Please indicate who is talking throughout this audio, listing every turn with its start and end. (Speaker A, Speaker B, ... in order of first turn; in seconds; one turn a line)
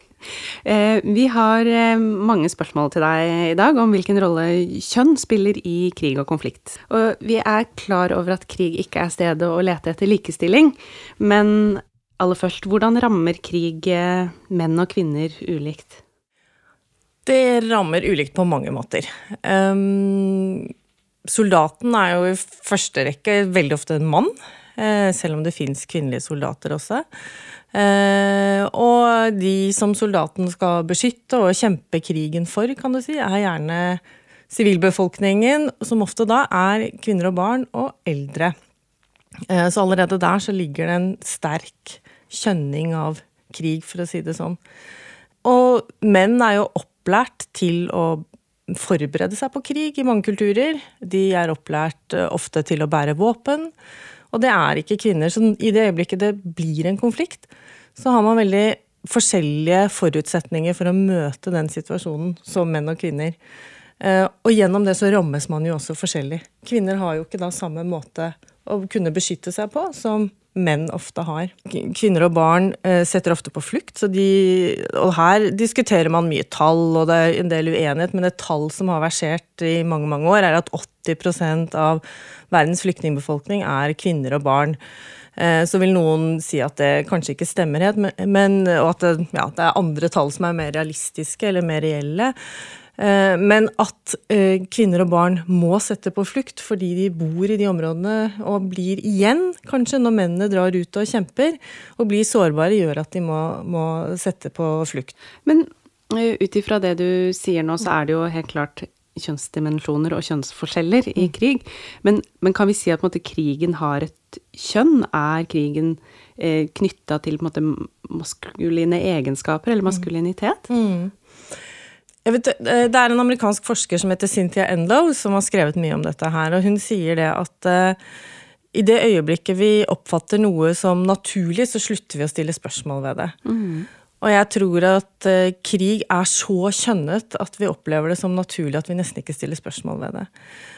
Speaker A: 0.6-16.0
Speaker B: 17.2-20.7
Speaker B: 21.2-27.0
Speaker B: 27.7-38.5
Speaker B: 39.5-44.6
Speaker B: 45.4-53.7
Speaker B: 54.3-63.4
Speaker B: 64.0-84.8
Speaker B: 85.3-92.3
Speaker B: 93.0-105.1
Speaker A: 105.4-120.7
Speaker B: 120.7-121.1
Speaker B: 122.2-128.0
Speaker B: 128.7-133.3
Speaker A: 133.4-133.9
Speaker B: 134.2-140.3